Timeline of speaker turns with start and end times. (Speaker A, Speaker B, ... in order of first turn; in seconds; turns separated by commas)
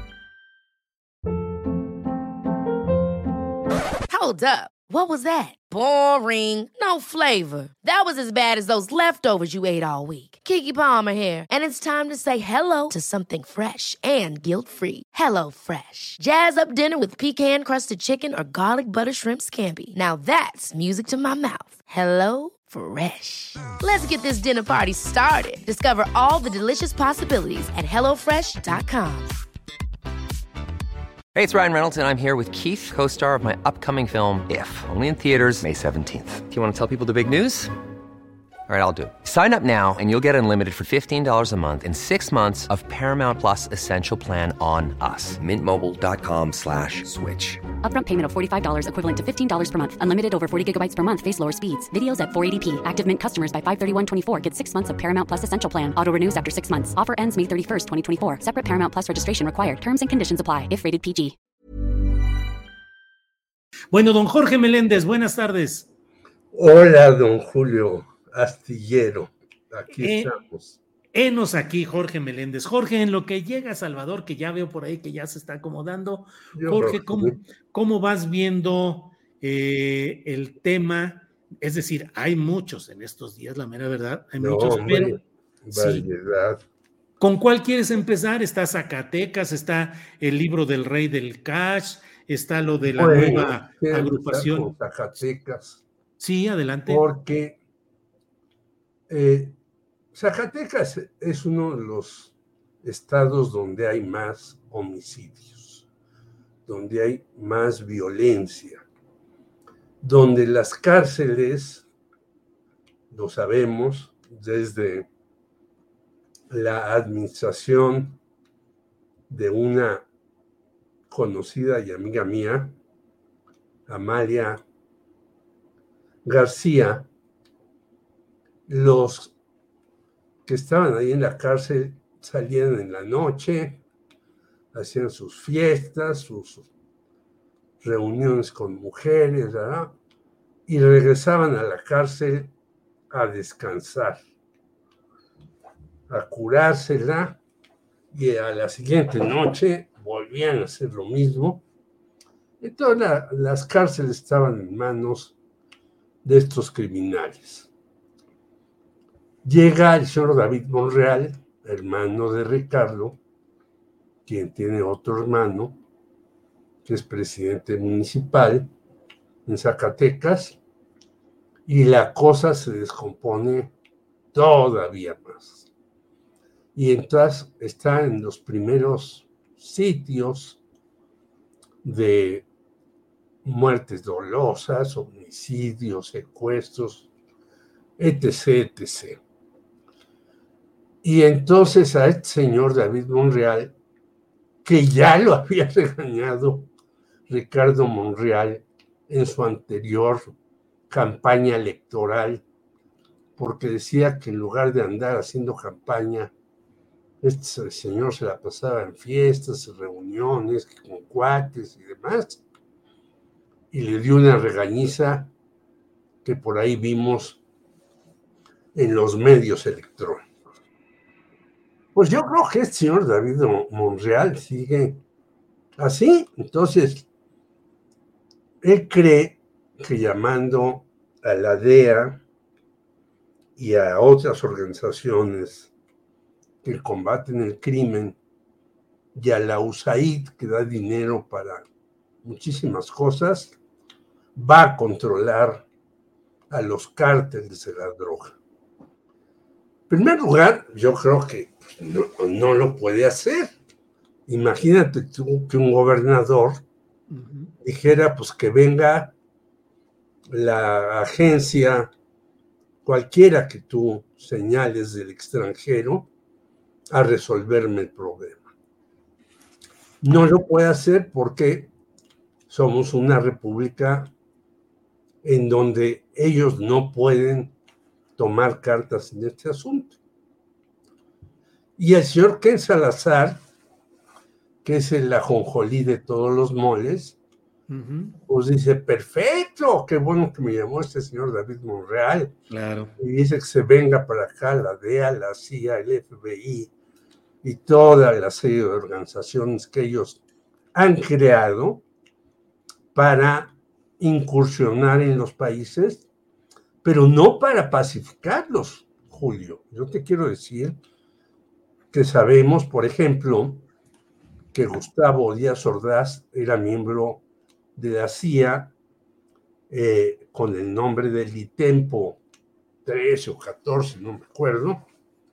Speaker A: 4.1-29.3, Speaker B: 31.3-37.7, Speaker B: 38.7-47.6, Speaker C: 47.8-61.4, Speaker D: 63.9-65.9, Speaker E: 66.5-70.8, Speaker D: 70.0-70.3, Speaker D: 71.1-85.2, Speaker E: 76.5-77.4, Speaker E: 84.4-86.6, Speaker D: 85.7-86.1, Speaker D: 87.2-94.7, Speaker E: 92.9-95.8, Speaker D: 96.2-97.0, Speaker E: 96.8-97.6, Speaker E: 99.1-99.5, Speaker E: 100.1-105.9, Speaker E: 106.7-108.8, Speaker E: 110.0-111.8, Speaker E: 113.1-115.1, Speaker E: 116.5-118.2, Speaker E: 119.3-120.0, Speaker E: 121.1-122.7, Speaker E: 123.9-124.6, Speaker E: 126.2-127.1, Speaker E: 128.7-129.3, Speaker E: 130.4-133.8, Speaker E: 134.7-136.7, Speaker E: 137.8-139.9, Speaker E: 140.7-142.5, Speaker E: 143.1-144.2, Speaker E: 146.1-147.4, Speaker E: 148.1-151.6, Speaker E: 152.6-155.3, Speaker E: 156.2-157.7, Speaker E: 159.4-163.2, Speaker E: 164.2-165.8, Speaker E: 166.8-168.7, Speaker E: 169.4-170.6, Speaker E: 171.7-173.7, Speaker E: 174.3-175.7, Speaker E: 176.7-180.6, Speaker E: 181.8-182.4, Speaker E: 183.4-187.1, Speaker E: 188.0-189.2, Speaker E: 191.0-193.7, Speaker E: 194.6-196.7, Speaker E: 197.3-200.3, Speaker E: 200.9-202.4, Speaker E: 203.4-206.3, Speaker E: 207.2-212.4, Speaker E: 213.7-215.3, Speaker E: 216.2-217.4, Speaker E: 218.7-220.3, Speaker E: 221.9-225.0, Speaker E: 225.8-227.1, Speaker E: 228.6-232.2, Speaker E: 233.6-235.7, Speaker E: 236.6-238.2, Speaker E: 239.1-241.6, Speaker E: 242.2-243.5, Speaker E: 244.3-245.6, Speaker E: 246.5-248.4, Speaker E: 249.9-253.5, Speaker E: 254.3-256.6, Speaker D: 257.1-257.5, Speaker E: 257.6-259.1, Speaker E: 260.3-261.9, Speaker E: 262.8-266.1, Speaker E: 266.9-268.4, Speaker E: 270.0-271.7, Speaker E: 272.5-274.1, Speaker E: 275.2-277.5, Speaker E: 278.2-279.9, Speaker E: 281.8-283.4, Speaker E: 284.6-287.2, Speaker D: 287.7-288.1, Speaker E: 288.3-292.3, Speaker D: 292.5-292.9, Speaker E: 293.0-296.7, Speaker E: 297.4-300.2, Speaker E: 300.7-301.8, Speaker E: 302.9-306.1, Speaker E: 306.8-310.8, Speaker E: 311.9-313.6, Speaker E: 314.5-317.2, Speaker E: 317.8-318.7, Speaker E: 319.7-322.2, Speaker E: 322.8-324.9